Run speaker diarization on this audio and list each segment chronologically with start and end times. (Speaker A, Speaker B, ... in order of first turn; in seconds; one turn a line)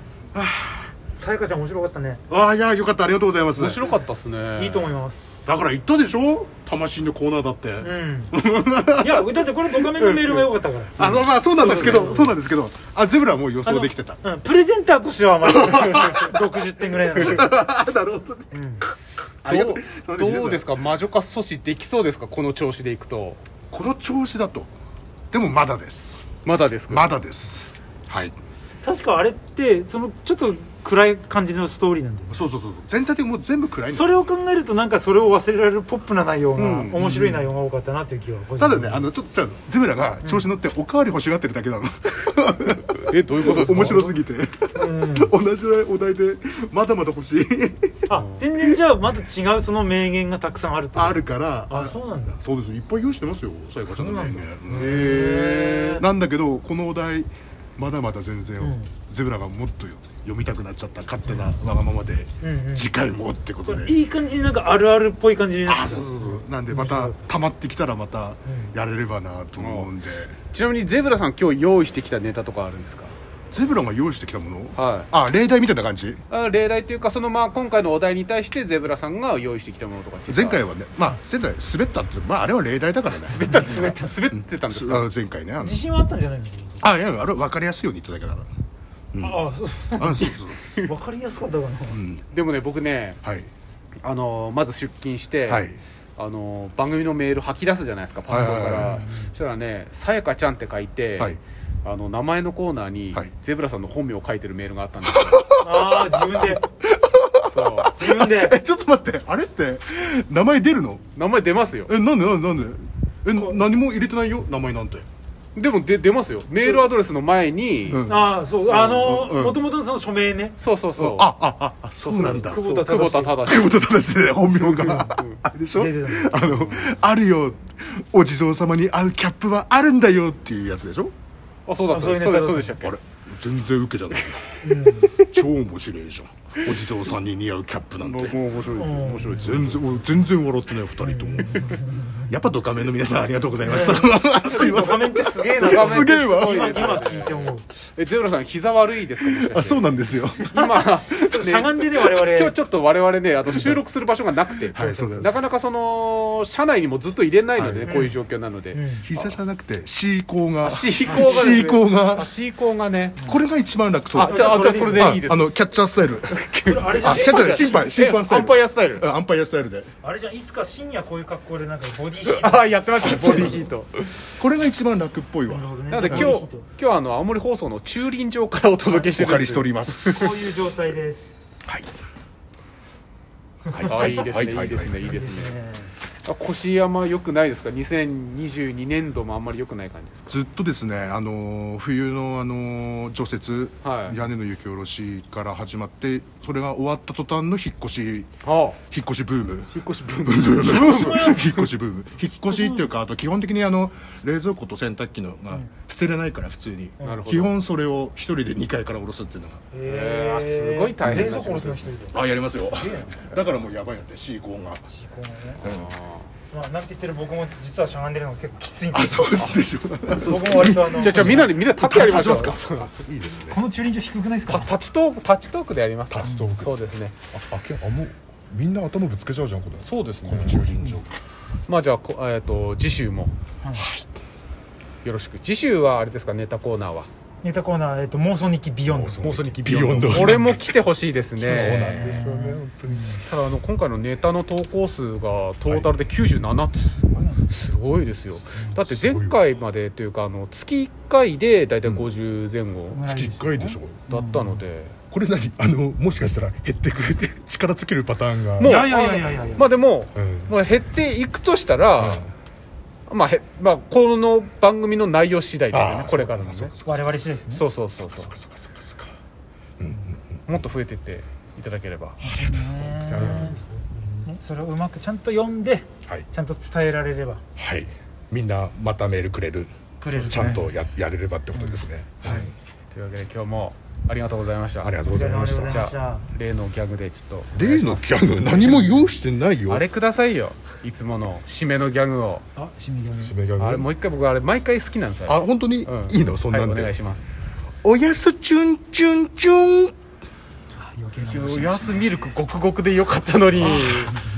Speaker A: 0.3-0.9
Speaker B: 1.2-2.2
Speaker A: 2.3-3.9
Speaker C: 3.6-4.9
Speaker B: 4.5-5.5
Speaker A: 5.5-14.2
Speaker B: 7.8-8.3
Speaker B: 8.9-11.0
Speaker C: 11.0-12.3
Speaker B: 11.7-12.3
Speaker B: 13.7-17.6
Speaker A: 15.5-16.3
Speaker A: 17.1-18.5
Speaker B: 18.5-18.8
Speaker A: 19.4-20.7
Speaker C: 19.5-23.4
Speaker A: 23.7-24.7
Speaker A: 25.3-26.3
Speaker C: 26.4-27.1
Speaker A: 26.9-28.4
Speaker B: 28.8-32.4
Speaker A: 32.3-34.2
Speaker B: 33.9-39.1
Speaker C: 36.6-37.2
Speaker A: 37.0-37.4
Speaker A: 38.6-48.1
Speaker C: 43.0-44.2
Speaker B: 44.7-45.3
Speaker B: 48.1-52.4
Speaker C: 48.1-48.4
Speaker A: 50.9-55.2
Speaker B: 53.9-56.0
Speaker C: 54.7-56.0
Speaker A: 55.9-64.0
Speaker B: 58.6-58.9
Speaker B: 62.4-62.9
Speaker B: 63.7-67.2
Speaker A: 65.7-70.4
Speaker B: 68.5-68.7
Speaker C: 69.6-69.9
Speaker C: 70.5-73.2
Speaker A: 73.5-76.2
Speaker C: 74.8-75.1
Speaker C: 76.3-80.6
Speaker A: 80.3-85.8
Speaker C: 83.2-85.1
Speaker B: 83.5-84.1
Speaker B: 85.6-86.9
Speaker A: 86.8-88.5
Speaker A: 89.1-89.4
Speaker B: 89.2-92.0
Speaker A: 90.0-90.6
Speaker C: 90.2-90.9
Speaker A: 91.9-92.2
Speaker C: 92.3-93.2
Speaker A: 93.2-93.5
Speaker C: 94.0-95.7
Speaker A: 95.5-95.8
Speaker C: 96.2-105.5
Speaker A: 98.3-99.0
Speaker B: 98.9-99.3
Speaker A: 105.0-111.1
Speaker B: 105.6-106.6
Speaker C: 107.5-108.0
Speaker B: 107.9-108.6
Speaker C: 111.2-111.9
Speaker A: 111.9-115.1
Speaker C: 115.6-118.0
Speaker A: 117.9-119.6
Speaker B: 118.1-120.6
Speaker C: 118.7-119.2
Speaker C: 120.6-121.3
Speaker A: 121.0-122.6
Speaker C: 122.0-123.9
Speaker B: 122.2-123.4
Speaker A: 123.4-131.1
Speaker C: 124.5-125.5
Speaker B: 124.8-125.1
Speaker B: 125.7-126.9
Speaker C: 131.7-133.0
Speaker B: 131.9-132.8
Speaker A: 132.8-134.6
Speaker B: 134.6-135.1
Speaker C: 135.0-135.4
Speaker A: 135.2-138.4
Speaker C: 138.0-140.1
Speaker B: 138.7-139.5
Speaker A: 139.2-147.1
Speaker B: 141.0-142.2
Speaker B: 143.6-147.6
Speaker C: 145.6-149.9
Speaker A: 149.2-150.5
Speaker B: 150.4-152.6
Speaker C: 150.5-159.4
Speaker A: 153.5-153.8
Speaker A: 154.7-155.4
Speaker B: 154.8-155.2
Speaker A: 157.6-157.9
Speaker B: 157.9-158.2
Speaker B: 158.7-159.1
Speaker A: 159.0-162.3
Speaker C: 160.6-163.2
Speaker B: 161.1-161.7
Speaker A: 163.2-166.4
Speaker C: 164.1-165.5
Speaker B: 164.2-165.3
Speaker C: 166.2-169.1
Speaker B: 166.6-167.9
Speaker A: 166.9-169.9
Speaker B: 170.0-173.7
Speaker C: 172.2-174.3
Speaker A: 173.0-173.7
Speaker A: 174.4-176.3
Speaker B: 175.5-176.7
Speaker C: 175.9-180.5
Speaker B: 178.9-179.1
Speaker A: 179.1-180.5
Speaker B: 180.1-181.4
Speaker A: 183.7-185.0
Speaker C: 183.8-185.6
Speaker B: 185.0-185.9
Speaker C: 186.2-190.4
Speaker A: 190.3-198.3
Speaker C: 193.8-194.2
Speaker C: 198.4-198.8
Speaker A: 198.9-209.6
Speaker C: 199.7-201.7
Speaker B: 200.9-201.4
Speaker B: 202.5-202.8
Speaker C: 207.0-207.5
Speaker B: 209.7-213.2
Speaker C: 209.9-211.9
Speaker A: 211.0-211.4
Speaker A: 212.1-214.9
Speaker B: 214.9-215.6
Speaker C: 215.6-216.3
Speaker A: 215.6-215.9
Speaker B: 216.5-219.6
Speaker A: 218.9-223.6
Speaker B: 220.1-222.6
Speaker C: 220.2-222.9
Speaker B: 223.5-224.7
Speaker C: 224.5-227.2
Speaker A: 226.1-231.1
Speaker B: 226.2-226.5
Speaker C: 229.8-230.7
Speaker C: 231.7-233.3
Speaker B: 233.6-233.9
Speaker A: 233.7-234.1
Speaker C: 235.0-237.1
Speaker B: 237.4-239.2
Speaker A: 238.9-240.7
Speaker C: 239.2-242.2
Speaker A: 241.4-243.1
Speaker B: 241.7-243.2
Speaker C: 243.2-253.0
Speaker B: 247.1-247.5
Speaker A: 248.4-249.4
Speaker B: 252.9-254.6
Speaker A: 253.0-254.1
Speaker C: 254.1-255.0
Speaker A: 255.1-258.9
Speaker C: 258.6-262.2
Speaker B: 258.6-259.7
Speaker A: 260.2-260.5
Speaker A: 262.0-262.3
Speaker C: 263.1-266.7
Speaker A: 265.7-267.1
Speaker B: 266.9-267.6
Speaker C: 267.5-268.3
Speaker A: 268.0-269.1
Speaker A: 269.8-270.6
Speaker C: 270.5-272.2
Speaker B: 272.2-273.7
Speaker A: 272.2-274.0
Speaker C: 273.2-273.5
Speaker B: 274.2-277.4
Speaker A: 277.6-282.5
Speaker B: 280.0-281.0
Speaker C: 280.2-280.6
Speaker C: 282.2-289.1
Speaker A: 284.8-285.9
Speaker B: 285.1-286.3
Speaker A: 287.5-289.9
Speaker C: 289.7-292.4
Speaker B: 292.6-293.4
Speaker A: 293.2-293.9
Speaker C: 293.6-297.3
Speaker A: 295.3-297.0
Speaker A: 297.8-299.9
Speaker B: 300.8-302.1
Speaker C: 301.2-304.1